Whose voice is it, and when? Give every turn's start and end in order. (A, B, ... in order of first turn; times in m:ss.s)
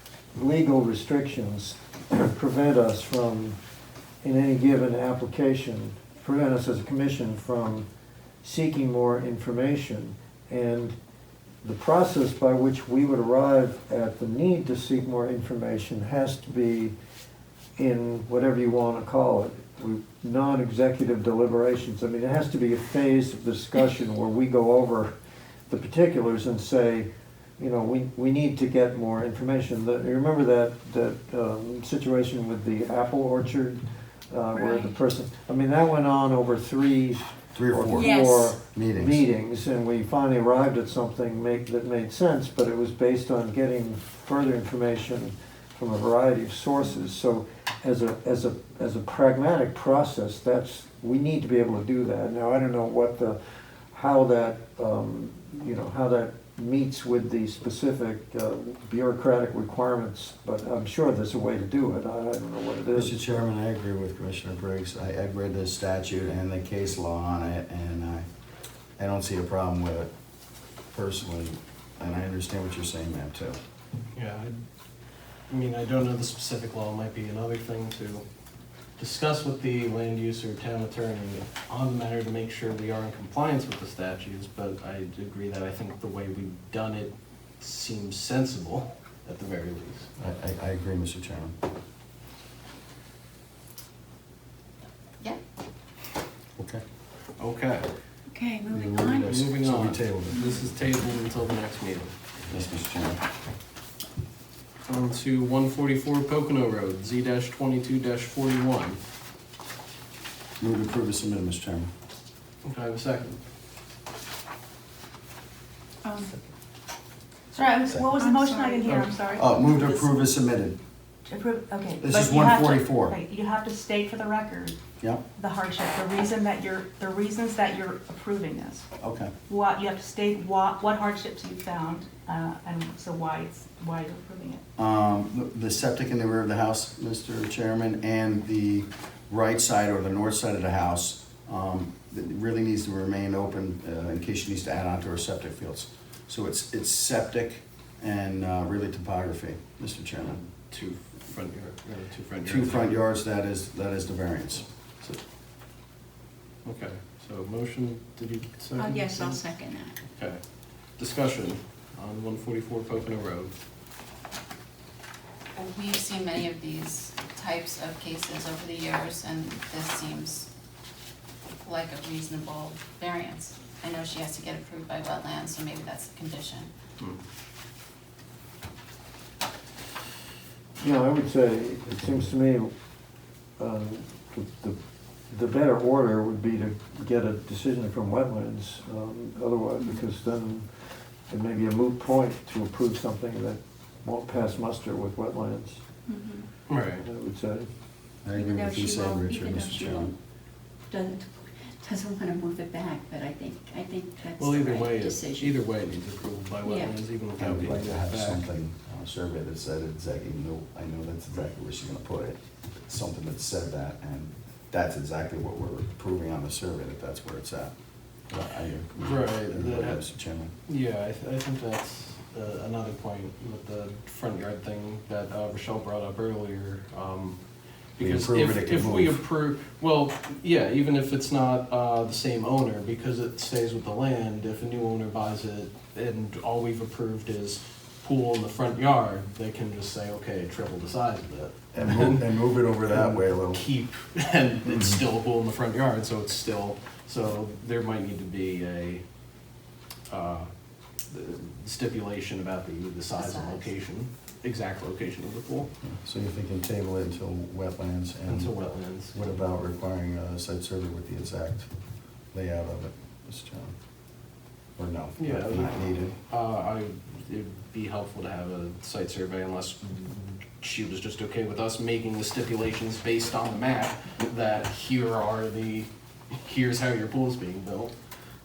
0:00.3-0:03.6 A
0:04.2-0:07.9 A
0:08.4-0:11.0 A
0:11.6-0:16.9 A
0:17.8-0:25.1 A
0:25.7-0:53.4 A
0:37.5-0:39.2 B
0:37.9-0:38.5 C
0:53.9-1:03.2 A
1:02.9-1:08.2 B
1:09.0-1:10.1 B
1:10.9-1:13.6 B
1:14.1-1:14.6 D
1:15.5-1:18.2 D
1:19.0-1:30.1 D
1:30.2-1:31.6 B
1:37.4-1:37.9 D
1:38.3-1:39.3 C
1:38.7-1:40.4 B
1:39.2-1:42.1 D
1:42.5-1:43.2 B
1:44.8-1:49.0 D
1:50.6-1:51.9 B
1:52.6-1:53.4 D
1:56.0-1:56.3 C
1:57.5-2:00.1 E
1:58.2-1:58.8 C
1:59.4-2:00.8 B
2:01.2-2:04.8 E
2:02.0-2:03.1 B
2:05.0-2:05.2 B
2:05.4-2:08.9 E
2:09.0-2:09.3 B
2:09.5-2:14.6 E
2:14.8-2:30.4 B
2:30.7-2:32.9 D
2:32.4-2:34.7 B
2:36.6-2:39.4 D
2:38.7-2:40.0 C
2:40.1-2:43.6 D
2:45.6-2:50.5 F
2:51.6-2:56.7 F
3:00.8-3:02.7 A
3:01.9-3:02.3 B
3:03.6-3:04.8 A
3:05.3-3:10.7 A
3:11.3-3:15.8 A
3:16.1-3:16.5 C
3:16.7-3:17.0 D
3:17.0-3:17.7 A
3:18.2-3:20.1 B
3:18.3-3:20.1 C
3:20.9-3:25.6 C
3:24.4-3:28.4 D
3:26.6-3:27.0 C
3:27.4-3:37.7 B
3:38.3-3:40.5 B
3:39.0-3:40.1 D
3:40.7-3:47.4 D
3:48.0-4:02.4 D
3:48.0-3:49.2 B
4:01.7-4:03.6 B
4:02.9-4:09.0 D
4:10.1-4:10.5 D
4:11.1-4:15.7 D
4:13.1-4:13.7 F
4:15.8-4:21.7 B
4:18.3-4:19.2 D
4:22.3-4:23.7 B
4:24.8-4:26.2 B
4:25.2-4:37.9 D